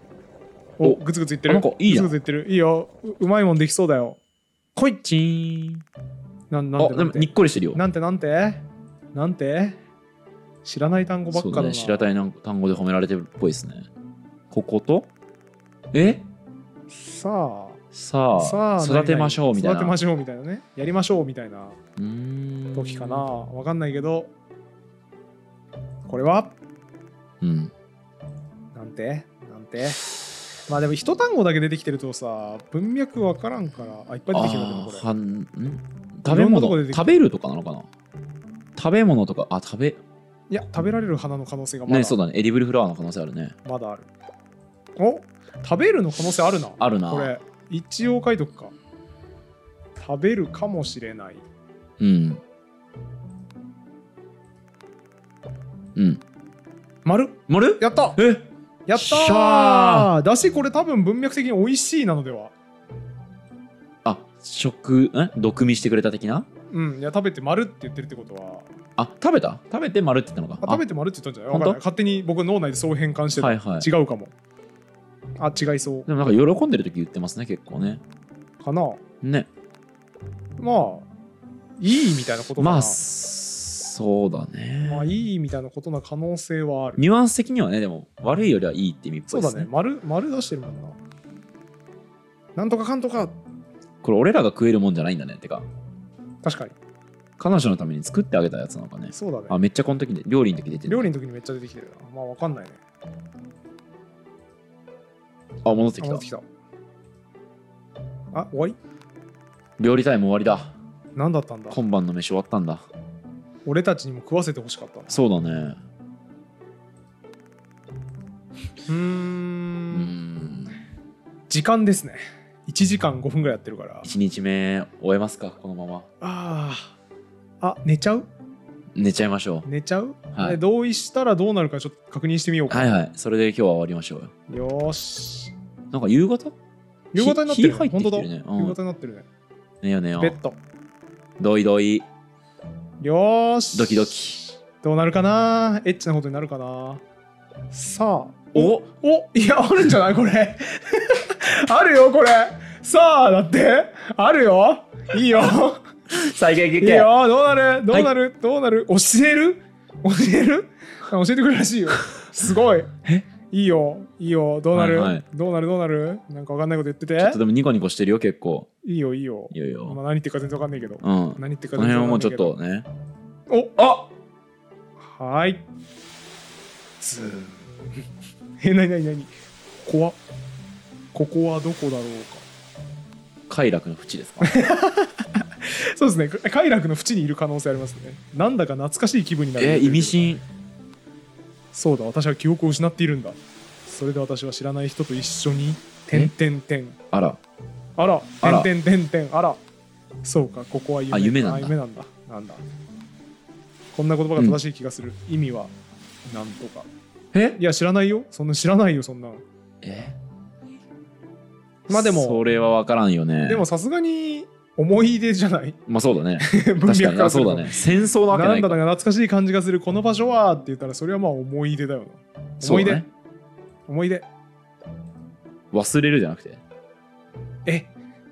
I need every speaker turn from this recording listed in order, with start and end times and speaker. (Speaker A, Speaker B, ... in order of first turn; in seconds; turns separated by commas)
Speaker A: 0.8-4.2, Speaker B: 0.8-2.1, Speaker A: 4.8-5.0, Speaker B: 5.0-5.8, Speaker A: 6.5-8.6, Speaker B: 6.8-7.8, Speaker A: 9.1-9.8, Speaker A: 10.6-12.1, Speaker B: 11.3-13.9, Speaker B: 14.5-15.1, Speaker B: 15.9-16.2, Speaker A: 16.9-17.8, Speaker B: 17.9-19.9, Speaker A: 18.4-21.8, Speaker B: 22.0-23.3, Speaker A: 22.8-24.3, Speaker A: 26.1-26.5, Speaker B: 27.4-27.7, Speaker A: 28.8-30.0, Speaker A: 30.7-35.1, Speaker B: 34.3-37.9, Speaker A: 36.3-37.2, Speaker B: 38.8-40.0, Speaker A: 40.5-42.2, Speaker B: 41.9-43.5, Speaker A: 43.6-44.1, Speaker A: 45.0-48.7, Speaker B: 46.8-47.3, Speaker A: 50.0-51.4, Speaker B: 52.0-52.4, Speaker B: 56.0-56.2, Speaker A: 57.0-58.2, Speaker B: 57.5-60.1, Speaker A: 58.9-62.5, Speaker B: 64.0-66.5, Speaker A: 66.7-68.7, Speaker B: 69.0-70.8, Speaker A: 70.6-74.3, Speaker B: 71.5-71.8, Speaker B: 73.4-73.9, Speaker A: 75.4-76.1, Speaker B: 76.1-78.0, Speaker A: 78.6-79.0, Speaker B: 79.2-79.5, Speaker A: 80.6-81.1, Speaker A: 81.8-83.0, Speaker B: 82.6-85.1, Speaker A: 84.8-87.0, Speaker B: 87.0-89.7, Speaker A: 89.3-91.0, Speaker A: 92.6-93.3, Speaker B: 94.0-95.7, Speaker A: 96.4-96.8, Speaker B: 97.4-101.1, Speaker A: 99.1-99.6, Speaker A: 100.9-102.8, Speaker B: 105.7-106.2, Speaker A: 106.0-106.5, Speaker A: 108.3-108.8, Speaker B: 109.8-110.7, Speaker A: 111.2-111.8, Speaker B: 111.7-112.9, Speaker A: 113.7-115.2, Speaker B: 115.1-115.8, Speaker A: 118.9-120.1, Speaker B: 119.9-120.8, Speaker A: 121.5-124.1, Speaker B: 124.0-126.1, Speaker A: 126.2-126.9, Speaker A: 127.6-128.3, Speaker B: 128.9-129.7, Speaker A: 129.7-133.0, Speaker B: 130.3-130.6, Speaker B: 132.7-134.3, Speaker A: 134.5-135.5, Speaker B: 135.9-136.6, Speaker A: 137.1-139.3, Speaker B: 137.2-138.8, Speaker B: 139.8-140.4, Speaker A: 140.2-140.6, Speaker B: 141.4-142.1, Speaker A: 143.0-147.0, Speaker B: 143.7-144.4, Speaker A: 147.7-155.8, Speaker B: 148.5-148.9, Speaker B: 156.1-157.1, Speaker A: 156.8-167.4, Speaker B: 164.7-165.2, Speaker B: 167.2-168.7, Speaker A: 168.8-172.6, Speaker B: 169.5-170.0, Speaker B: 171.0-172.9, Speaker A: 173.5-173.7, Speaker B: 173.8-174.1, Speaker A: 175.0-175.7, Speaker A: 177.0-177.7, Speaker A: 178.6-179.3, Speaker A: 179.8-180.2, Speaker A: 181.1-182.4, Speaker B: 183.5-184.5, Speaker A: 184.4-190.2, Speaker B: 189.6-190.4, Speaker A: 191.7-197.0, Speaker B: 197.1-197.4, Speaker A: 198.0-199.6, Speaker B: 198.4-198.7, Speaker A: 200.2-202.6, Speaker B: 201.1-201.8, Speaker A: 203.9-205.7, Speaker A: 206.3-206.9, Speaker B: 207.3-207.6, Speaker A: 207.6-209.4, Speaker B: 209.8-210.2, Speaker A: 211.9-212.4, Speaker B: 211.9-213.7, Speaker A: 213.5-215.8, Speaker B: 215.9-218.8, Speaker A: 216.4-217.8, Speaker A: 218.3-223.1, Speaker B: 222.6-223.1, Speaker A: 223.9-224.3, Speaker B: 225.7-226.6, Speaker A: 227.7-227.9